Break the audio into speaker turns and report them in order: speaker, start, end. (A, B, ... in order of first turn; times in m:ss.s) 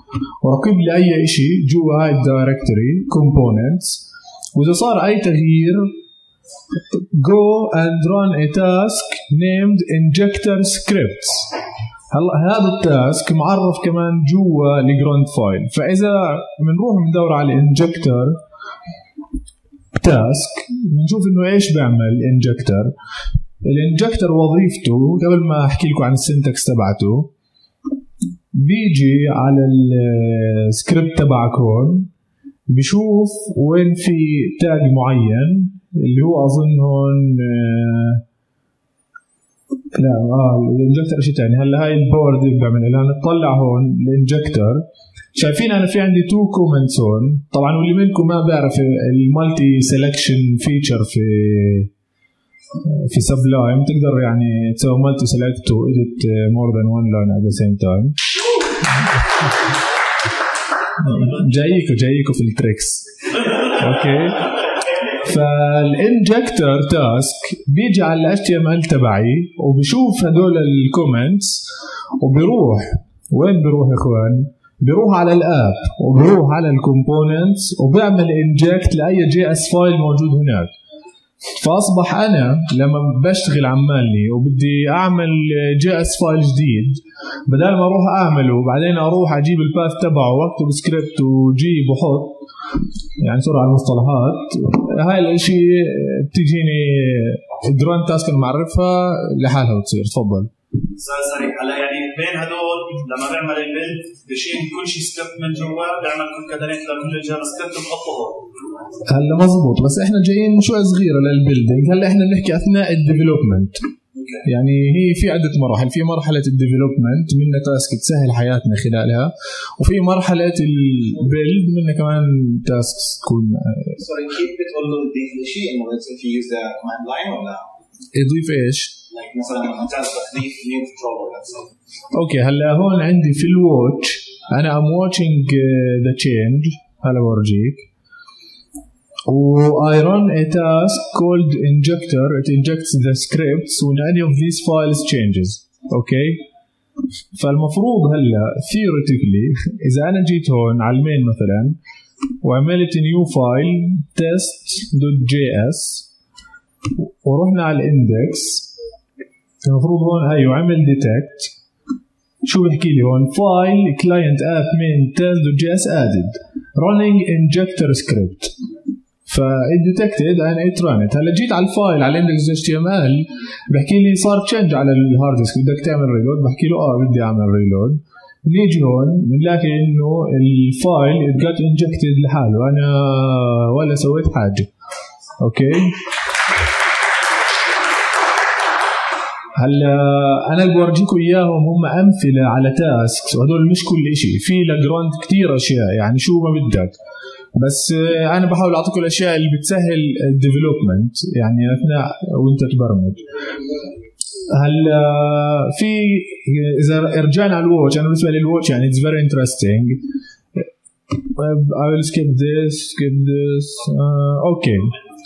0:00.4-0:06.0 A
0:06.9-0:11.5 A
0:12.1-0:18.4 A
0:19.9-0:22.9 A
0:23.6-0:27.3 A
0:28.5-0:32.1 A
0:32.7-0:38.2 A
0:39.9-0:51.9 A
0:52.8-0:58.2 A
1:01.0-1:04.4 A
1:05.2-1:11.6 A
1:12.2-1:20.7 A
1:21.6-1:32.4 A
1:33.2-1:40.5 A
1:41.0-1:48.5 B
1:49.1-1:53.8 A
1:54.2-1:54.4 B
1:54.4-2:04.0 A
2:04.0-2:07.7 C
2:08.1-2:09.0 A
2:09.1-2:11.7 C
2:12.1-2:17.9 A
2:19.3-2:26.4 A
2:27.3-2:31.8 A
2:32.4-2:36.1 A
2:37.2-2:38.7 A
2:39.6-2:41.5 A
2:42.4-2:48.5 A
2:49.3-3:04.7 A
3:05.4-3:06.0 A
3:09.6-3:16.9 A
3:17.6-3:23.2 A
3:24.5-3:30.0 A
3:31.3-3:34.9 A